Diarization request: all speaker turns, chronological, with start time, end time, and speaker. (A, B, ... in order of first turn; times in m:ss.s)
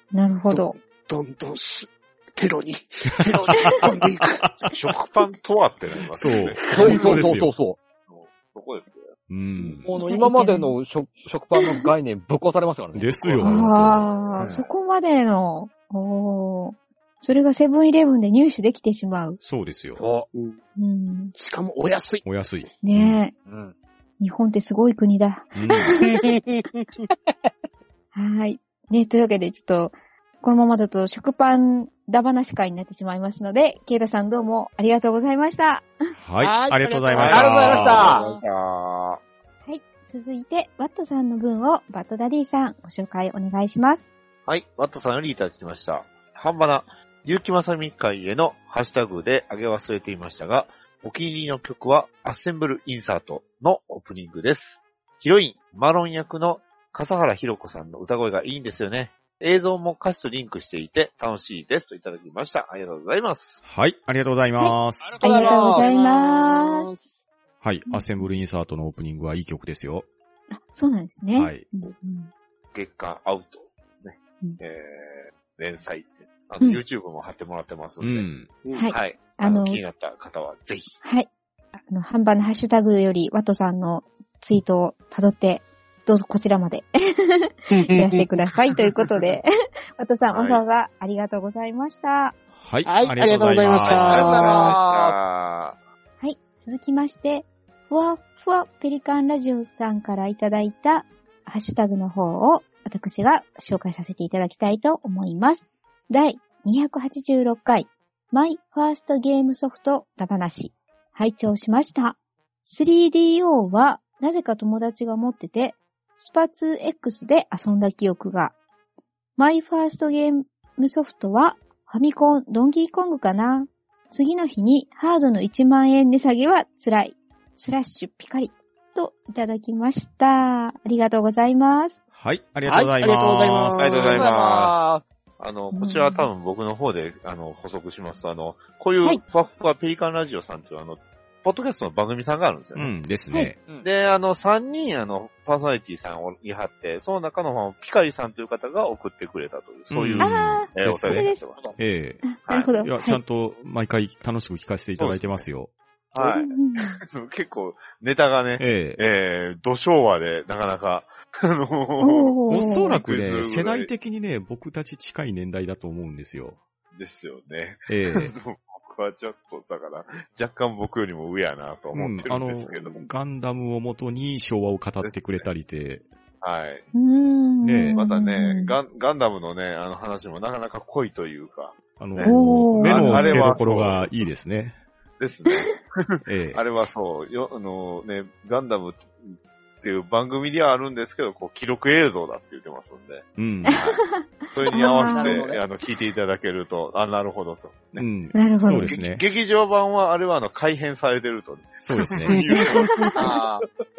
0:00.1-0:00.8 A
0:00.5-0:04.5 B
0:03.5-0:03.9 A
0:04.6-0:07.0 C
0:06.2-0:07.5 D
0:06.7-0:07.8 E
0:06.8-0:07.1 B
0:08.1-0:09.9 C
0:09.3-0:09.8 D
0:09.8-0:13.5 E
0:10.0-0:10.8 A
0:11.6-0:11.9 A
0:13.0-0:14.1 D
0:13.2-0:14.7 C
0:13.4-0:19.4 A
0:19.4-0:20.0 D
0:20.0-0:20.3 E
0:20.3-0:20.6 B
0:20.8-0:21.3 A
0:21.3-0:22.2 B
0:22.2-0:23.2 D
0:22.8-0:23.3 A
0:23.5-0:23.7 E
0:24.2-0:26.3 A
0:25.6-0:26.0 D
0:26.1-0:27.0 B
0:28.1-0:35.9 A
0:36.2-0:38.1 D
0:36.4-0:38.4 B
0:37.2-0:39.2 C
0:37.3-0:38.2 E
0:39.6-0:44.0 A
0:44.5-1:03.6 C
1:03.6-1:05.2 D
1:04.6-1:07.0 A
1:05.0-1:06.6 E
1:05.2-1:07.0 B
1:07.6-1:10.1 D
1:07.9-1:08.2 A
1:10.5-1:12.3 A
1:11.3-1:11.7 D
1:12.7-1:18.3 C
1:18.0-1:18.5 D
1:18.6-1:18.9 B
1:18.7-1:19.8 A
1:18.9-1:21.0 C
1:21.0-1:21.3 A
1:21.9-1:32.4 A
1:27.7-1:28.4 B
1:30.3-1:30.6 C
1:32.6-1:34.5 D
1:32.8-1:34.8 B
1:33.7-1:35.8 C
1:33.9-1:35.2 E
1:36.2-1:58.6 A
1:59.4-2:12.0 A
2:12.1-2:14.2 D
2:12.7-2:14.3 B
2:13.8-2:14.8 C
2:14.0-2:15.0 E
2:15.4-2:22.9 C
2:15.7-2:16.3 A
2:22.8-2:23.6 D
2:23.8-2:31.7 C
2:29.9-2:35.7 D
2:30.2-2:31.4 A
2:32.2-2:33.2 A
2:32.5-2:32.8 C
2:35.0-2:35.5 C
2:36.1-2:42.4 C
2:36.2-2:37.0 A
2:38.6-2:39.0 D
2:42.0-2:43.0 A
2:42.5-2:46.6 D
2:42.9-2:43.9 C
2:46.9-2:53.0 C
2:47.9-2:48.3 D
2:51.9-2:56.1 D
2:55.0-2:55.5 C
2:56.4-2:56.9 C
2:57.0-2:58.8 A
2:57.6-2:58.0 D
2:57.9-3:04.1 C
3:02.0-3:04.8 D
3:02.4-3:03.2 B
3:02.9-3:03.4 A
3:05.2-3:18.1 C
3:05.5-3:05.8 A
3:06.3-3:06.6 D
3:13.4-3:13.8 D
3:13.6-3:15.5 A
3:15.0-3:15.6 E
3:18.0-3:19.2 D
3:18.3-3:19.0 A
3:18.8-3:23.5 C
3:21.8-3:22.4 D
3:22.4-3:23.1 B
3:23.2-3:23.6 E